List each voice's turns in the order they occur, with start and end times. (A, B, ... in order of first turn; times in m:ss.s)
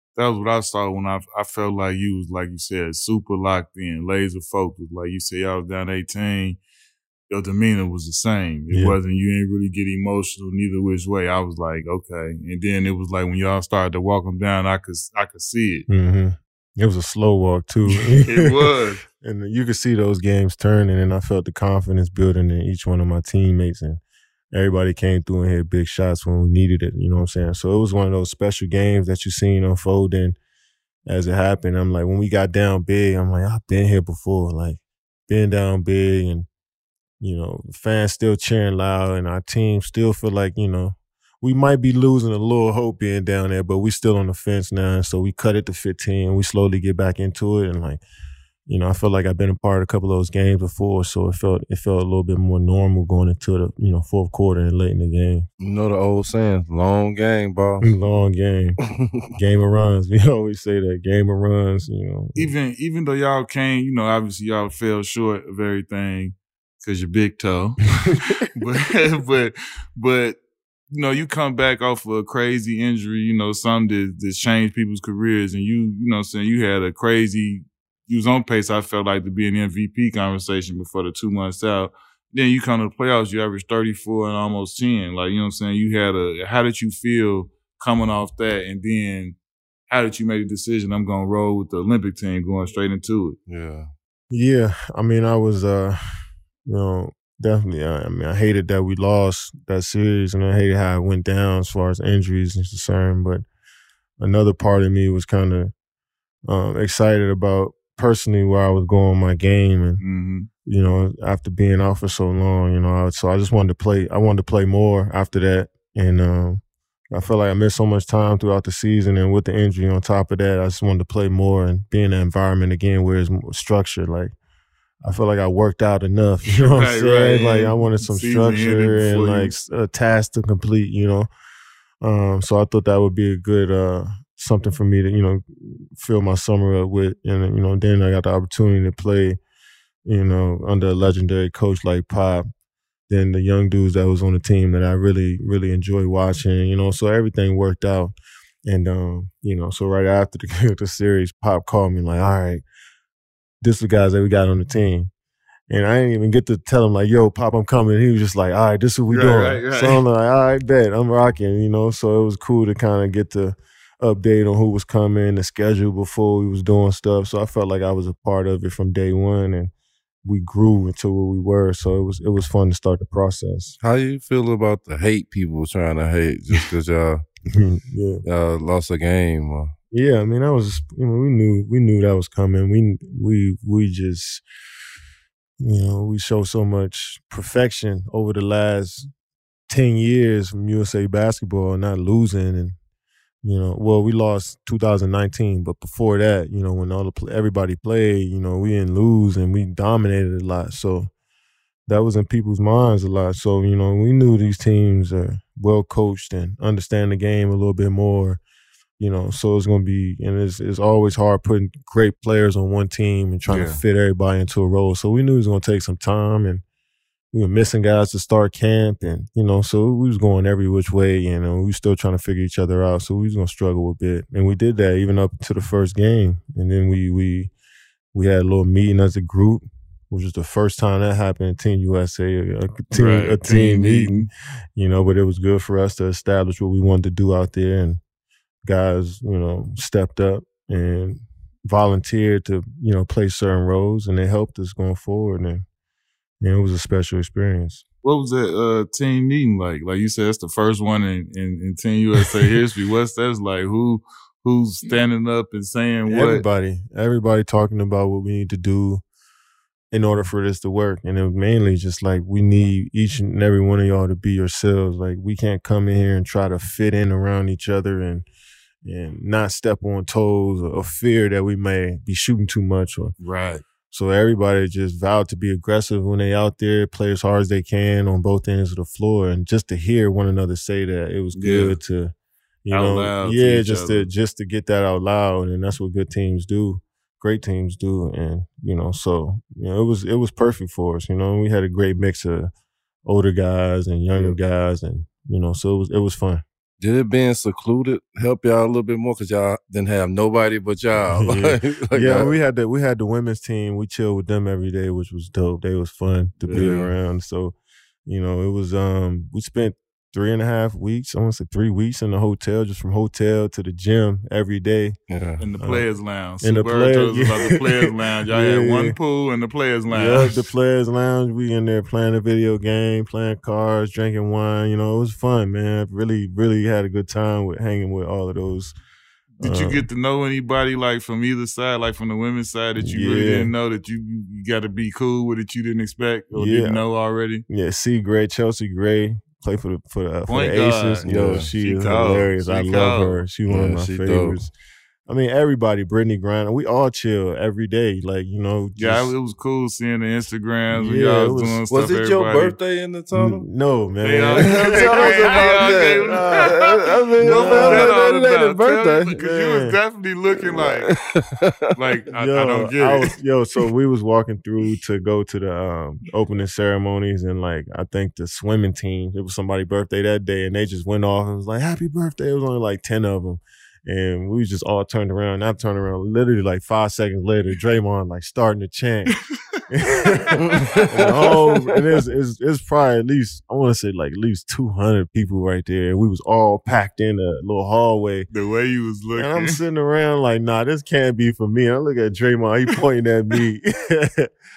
0:00.2-0:06.6 A
0:07.3-0:15.8 A
0:08.7-0:09.0 B
0:15.9-0:24.0 B
0:18.2-0:19.0 A
0:24.5-0:30.4 B
0:31.1-0:36.5 B
0:37.2-0:48.0 B
0:48.7-0:55.5 B
0:55.6-0:57.9 C
0:57.8-0:58.8 B
0:59.3-1:02.5 B
1:02.4-1:10.4 A
1:08.0-1:08.3 B
1:10.9-1:29.4 A
1:29.9-1:33.4 A
1:33.5-1:33.9 C
1:34.3-1:43.4 B
1:44.2-1:45.7 B
1:46.5-1:50.0 B
1:50.0-1:50.5 A
1:50.6-2:04.3 B
2:05.0-2:11.3 B
2:06.4-2:09.6 A
2:12.0-2:19.4 B
2:20.0-2:22.5 B
2:23.1-2:32.6 B
2:33.6-2:35.1 B
2:35.7-2:49.7 B
2:39.1-2:40.0 A
2:50.2-2:53.7 B
2:53.8-2:57.2 C
2:57.5-2:58.2 B
2:58.2-2:59.7 C
2:59.9-3:04.4 B
3:05.6-3:09.1 B
3:09.7-3:12.8 B
3:13.4-3:21.1 B
3:21.9-3:28.4 B
3:29.0-3:36.6 B
3:33.5-3:33.8 A
3:37.3-3:47.5 B
3:48.1-3:58.0 B
3:52.9-3:54.3 A
3:58.6-4:05.6 B
4:06.4-4:07.8 B
4:08.0-4:16.4 A
4:16.1-4:19.0 B
4:19.9-4:28.3 B
4:28.8-4:33.1 B
4:33.2-4:33.6 A
4:33.9-4:42.1 B
4:41.3-4:41.8 A
4:42.6-4:52.5 B
4:42.7-4:44.1 A
4:53.0-4:56.4 B
4:56.8-5:02.3 C
5:01.1-5:15.0 B
5:06.4-5:06.9 C
5:15.1-5:15.4 C
5:15.4-5:20.5 A
5:15.6-5:15.9 B
5:16.4-5:19.0 B
5:19.9-5:28.8 B
5:29.4-5:37.4 A
5:29.4-5:29.8 B
5:32.8-5:33.5 B
5:36.3-5:36.8 B
5:37.5-5:44.5 B
5:40.3-5:43.2 A
5:41.0-5:41.5 C
5:43.5-5:44.4 C
5:45.1-5:49.1 B
5:48.8-5:52.6 A
5:50.7-5:51.6 B
5:51.7-5:53.4 C
5:53.1-5:59.8 B
5:54.0-6:00.9 A
5:54.3-5:56.6 C
5:57.2-5:58.0 C
6:00.4-6:01.7 C
6:01.7-6:03.1 A
6:02.1-6:19.1 B
6:19.7-6:28.3 B
6:20.5-6:21.7 C
6:28.3-6:29.6 A
6:29.1-6:34.3 B